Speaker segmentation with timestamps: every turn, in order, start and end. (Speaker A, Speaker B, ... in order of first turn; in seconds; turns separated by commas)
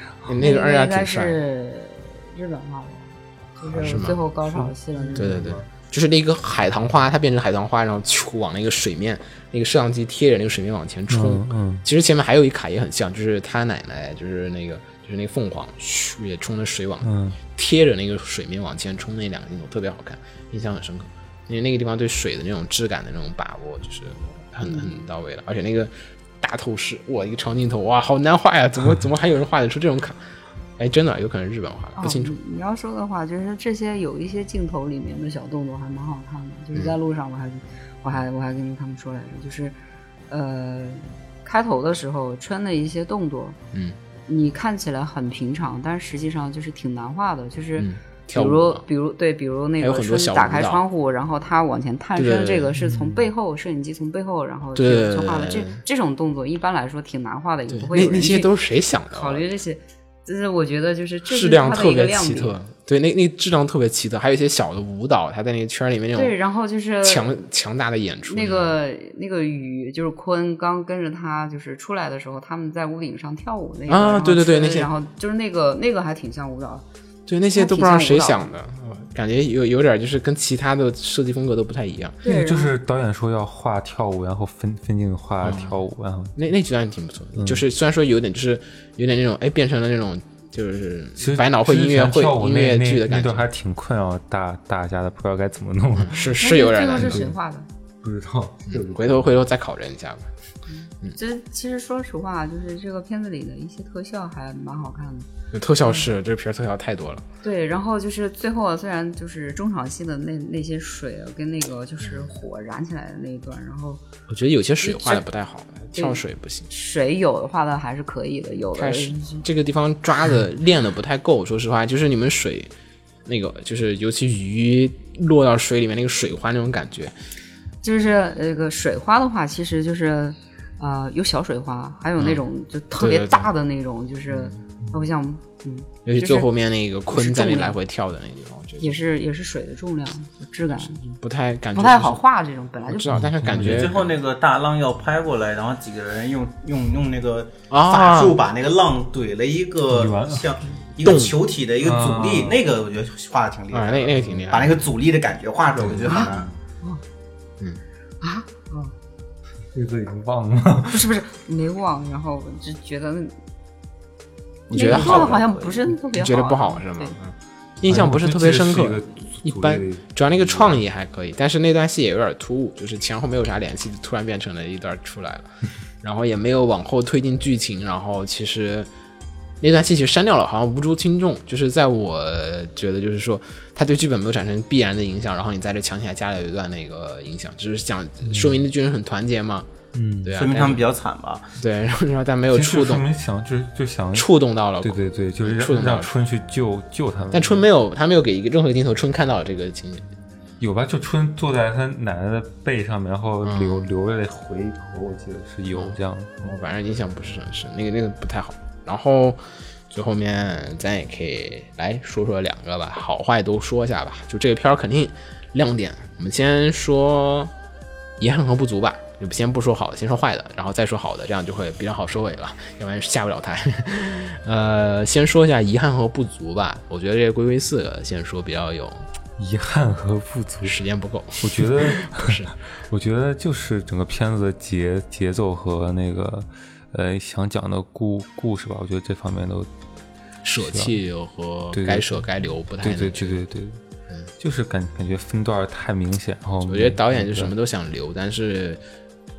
Speaker A: 0.2-1.4, Speaker B: 0.4-5.6, Speaker A: 3.7-4.2, Speaker C: 4.5-5.6, Speaker A: 5.2-30.2, Speaker C: 11.1-11.8, Speaker C: 17.0-17.4, Speaker B: 24.6-24.9, Speaker A: 30.8-32.4, Speaker B: 32.0-39.8, Speaker B: 40.3-43.6, Speaker A: 43.7-44.0, Speaker B: 44.3-58.5, Speaker A: 47.8-48.8, Speaker A: 49.8-50.8, Speaker A: 52.2-52.7, Speaker C: 52.8-53.1, Speaker A: 54.8-55.8, Speaker A: 57.7-59.4, Speaker B: 59.1-62.5, Speaker A: 61.3-66.3, Speaker B: 66.2-67.4, Speaker A: 67.0-68.8, Speaker B: 68.3-76.8, Speaker A: 73.9-74.9, Speaker A: 77.3-82.2, Speaker B: 77.5-78.5, Speaker B: 82.2-82.7, Speaker C: 82.2-86.4, Speaker A: 85.4-85.8, Speaker A: 86.4-93.5, Speaker C: 87.4-87.6, Speaker C: 91.2-96.3, Speaker A: 96.0-97.3, Speaker B: 96.4-97.7, Speaker C: 97.0-97.3, Speaker C: 98.0-99.3, Speaker A: 98.7-100.3, Speaker B: 100.7-105.3, Speaker A: 105.5-107.3, Speaker B: 107.4-114.0, Speaker A: 112.0-112.3, Speaker A: 114.3-116.7, Speaker B: 114.8-115.2, Speaker B: 115.9-119.4, Speaker A: 118.8-122.7, Speaker A: 123.3-127.1, Speaker B: 127.8-136.5, Speaker A: 133.0-133.5, Speaker A: 134.3-134.6, Speaker A: 136.1-139.0, Speaker B: 137.1-137.8, Speaker B: 138.8-141.0, Speaker A: 140.8-142.2, Speaker B: 141.7-143.2, Speaker A: 142.8-144.1, Speaker C: 143.1-144.0, Speaker D: 143.6-156.5, Speaker A: 147.7-148.4, Speaker C: 149.9-150.5, Speaker A: 151.0-151.4, Speaker C: 151.8-152.6, Speaker A: 153.7-154.8, Speaker C: 155.8-156.3, Speaker A: 155.9-156.4, Speaker B: 158.2-158.9, Speaker C: 159.7-161.1, Speaker B: 160.9-163.3, Speaker D: 164.7-165.8, Speaker A: 164.7-165.4, Speaker B: 164.7-167.2, Speaker A: 166.1-178.9, Speaker C: 167.9-170.8, Speaker A: 179.6-189.7, Speaker C: 188.3-188.6, Speaker C: 189.9-190.4, Speaker A: 190.2-190.9, Speaker D: 190.4-191.5, Speaker A: 191.6-193.0, Speaker C: 192.5-197.6, Speaker A: 194.1-196.1, Speaker A: 197.3-200.1, Speaker C: 200.6-206.5, Speaker A: 203.4-203.9, Speaker A: 205.7-217.5, Speaker A: 218.2-229.0, Speaker C: 229.4-230.8, Speaker A: 230.6-232.5, Speaker C: 231.4-239.7, Speaker A: 240.4-243.4, Speaker C: 240.6-240.9, Speaker C: 241.7-242.2, Speaker C: 242.8-243.8, Speaker C: 244.4-247.5, Speaker A: 246.7-248.8